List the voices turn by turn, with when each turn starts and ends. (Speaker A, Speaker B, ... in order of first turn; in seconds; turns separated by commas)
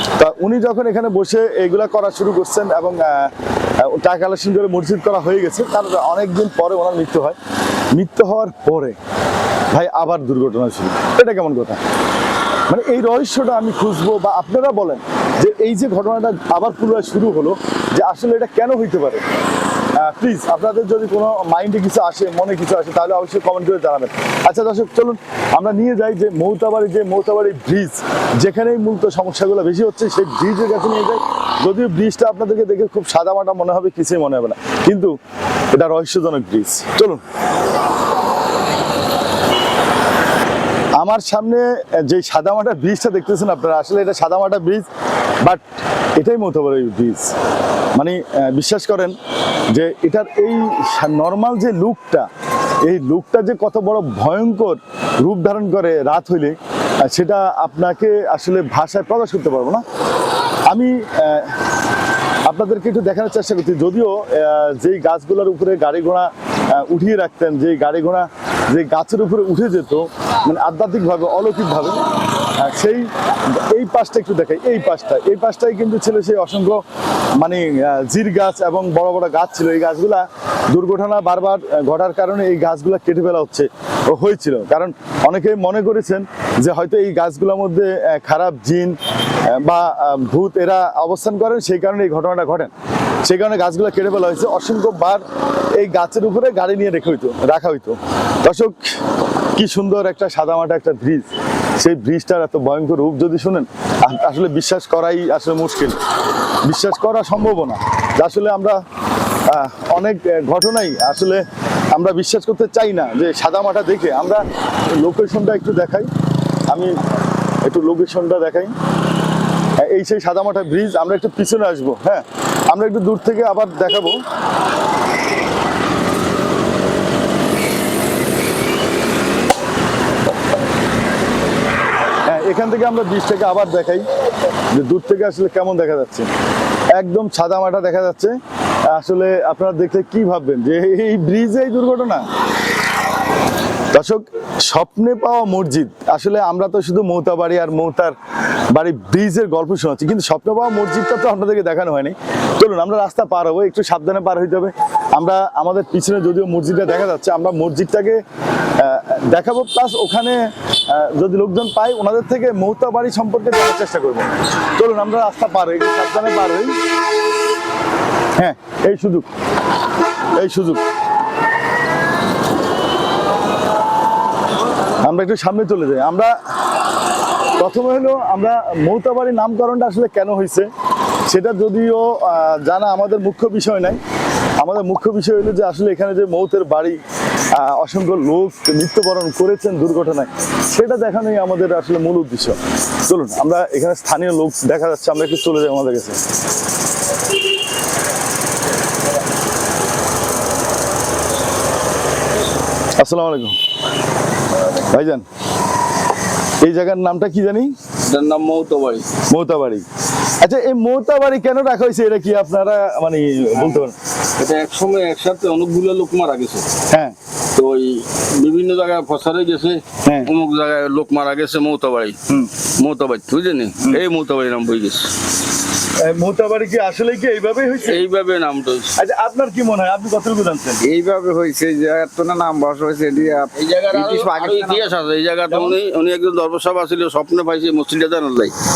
Speaker A: 0.2-7.4, Speaker A: 7.9-9.0, Speaker A: 9.7-11.8, Speaker A: 12.7-19.2, Speaker A: 20.0-35.1, Speaker A: 35.7-37.2, Speaker A: 41.0-44.9, Speaker A: 46.2-47.3, Speaker A: 48.0-49.2, Speaker A: 49.7-52.3, Speaker A: 52.8-59.8, Speaker A: 60.7-61.6, Speaker A: 62.5-72.0, Speaker A: 72.6-76.8, Speaker A: 77.4-92.7, Speaker A: 93.2-95.2, Speaker A: 95.8-99.0, Speaker A: 99.6-106.0, Speaker A: 106.7-108.8, Speaker A: 109.5-116.1, Speaker A: 116.7-117.0, Speaker A: 117.7-118.7, Speaker A: 119.8-124.2, Speaker A: 132.3-134.0, Speaker A: 134.7-136.3, Speaker A: 136.9-142.3, Speaker A: 143.9-148.2, Speaker A: 148.7-158.2, Speaker A: 158.8-166.7, Speaker A: 168.3-169.3, Speaker A: 170.3-170.8, Speaker A: 175.0-176.3, Speaker A: 177.6-180.7, Speaker A: 181.3-184.0, Speaker A: 184.6-187.0, Speaker A: 187.5-196.2, Speaker A: 203.0-203.6, Speaker A: 204.9-205.2, Speaker A: 206.6-207.7, Speaker B: 208.1-209.1, Speaker A: 209.3-209.8, Speaker A: 210.4-213.9, Speaker B: 214.4-216.7, Speaker A: 216.9-217.2, Speaker B: 217.5-222.2, Speaker A: 220.0-220.3, Speaker B: 222.8-225.1, Speaker A: 226.0-228.1, Speaker B: 227.8-228.9, Speaker A: 229.0-230.8, Speaker C: 230.8-234.9, Speaker B: 233.5-238.5, Speaker A: 235.5-235.8